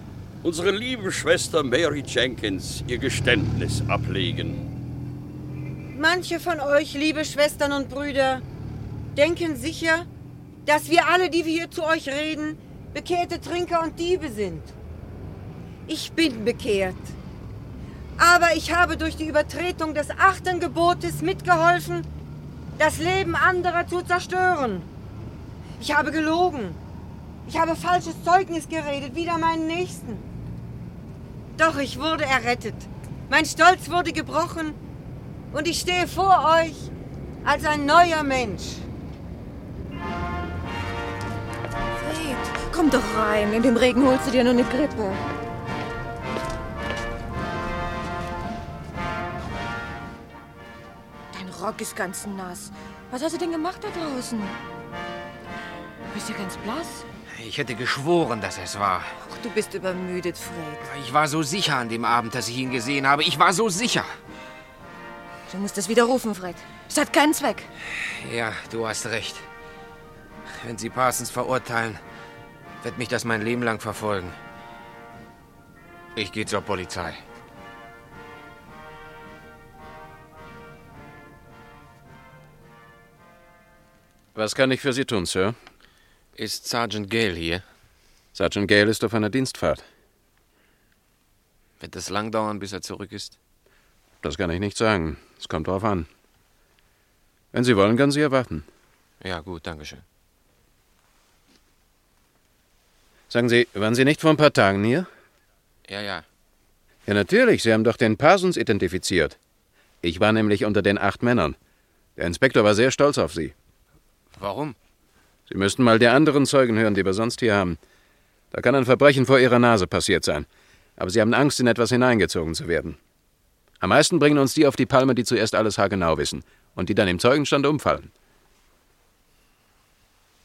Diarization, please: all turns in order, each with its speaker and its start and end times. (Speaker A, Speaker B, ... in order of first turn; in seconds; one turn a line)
Speaker A: 0.4-4.6
Speaker B: 5.9-8.4
Speaker B: 9.1-10.1
Speaker B: 10.7-14.7
Speaker B: 15.9-17.1
Speaker B: 18.2-22.1
Speaker B: 22.8-24.9
Speaker B: 25.8-26.8
Speaker B: 27.4-30.2
Speaker B: 31.6-34.8
Speaker B: 35.5-36.9
Speaker B: 37.4-38.9
Speaker C: 42.0-45.2
Speaker C: 51.3-54.5
Speaker C: 56.1-57.0
Speaker D: 57.3-59.2
Speaker C: 59.2-60.9
Speaker D: 60.8-64.2
Speaker C: 65.5-67.7
Speaker D: 68.0-69.5
Speaker D: 70.5-72.0
Speaker D: 72.8-74.4
Speaker D: 76.1-77.2
Speaker E: 84.3-85.5
Speaker D: 86.3-87.7
Speaker E: 88.3-89.8
Speaker D: 91.8-93.4
Speaker E: 94.2-96.1
Speaker E: 97.5-98.7
Speaker D: 99.2-100.0
Speaker E: 103.3-105.1
Speaker D: 105.9-106.2
Speaker E: 107.1-109.4
Speaker E: 110.0-111.6
Speaker E: 112.2-113.5
Speaker D: 114.4-114.8
Speaker E: 115.5-117.8
Speaker E: 118.5-123.0
Speaker E: 123.8-128.1